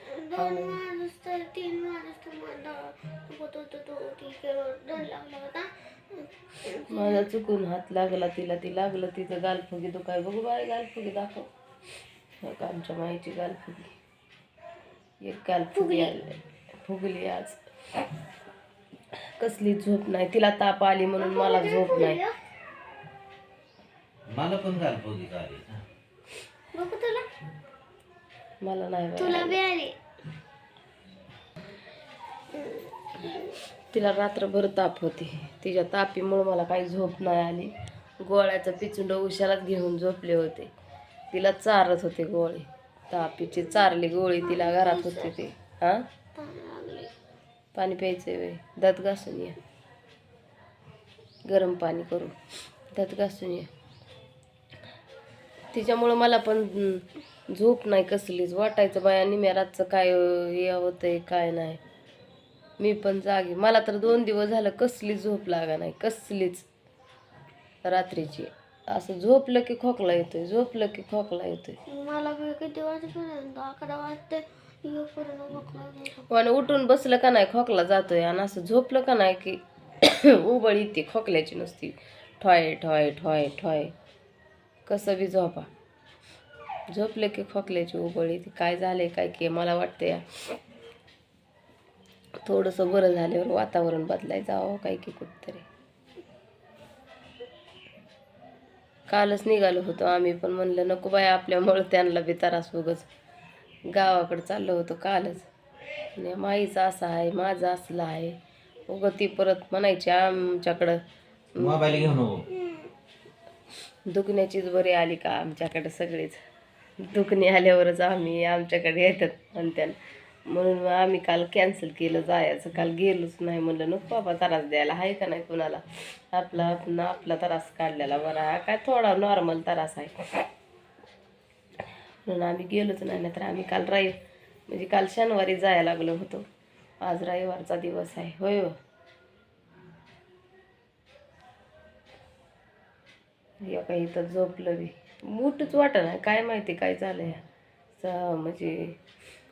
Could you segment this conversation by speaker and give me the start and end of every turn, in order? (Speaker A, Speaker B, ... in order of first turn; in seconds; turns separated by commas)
Speaker A: 0.1-7.3, Speaker B: 0.4-0.8, Speaker B: 6.9-11.5, Speaker B: 12.4-13.9, Speaker B: 15.2-17.6, Speaker A: 15.8-16.1, Speaker B: 19.4-22.2, Speaker A: 21.2-22.4, Speaker C: 24.3-25.8, Speaker A: 26.7-27.2, Speaker B: 28.6-29.6, Speaker A: 29.2-30.0, Speaker A: 32.6-33.5, Speaker B: 33.9-40.7, Speaker B: 41.3-46.0, Speaker A: 44.4-45.3, Speaker A: 46.4-47.1, Speaker B: 47.7-49.6, Speaker B: 51.5-52.4, Speaker B: 52.9-53.7, Speaker B: 55.7-61.8, Speaker B: 62.8-66.7, Speaker B: 67.8-71.8, Speaker A: 71.9-76.2, Speaker B: 76.3-83.9, Speaker B: 84.9-85.7, Speaker B: 86.9-90.2, Speaker B: 92.4-95.7, Speaker B: 99.1-103.1, Speaker B: 103.9-105.5, Speaker B: 106.2-108.4, Speaker B: 108.9-111.0, Speaker B: 111.5-112.1, Speaker C: 111.6-112.5, Speaker B: 114.1-116.4, Speaker B: 117.0-130.2, Speaker B: 132.2-134.1, Speaker B: 134.7-136.4, Speaker B: 137.0-138.8, Speaker B: 143.6-147.4, Speaker B: 148.0-149.0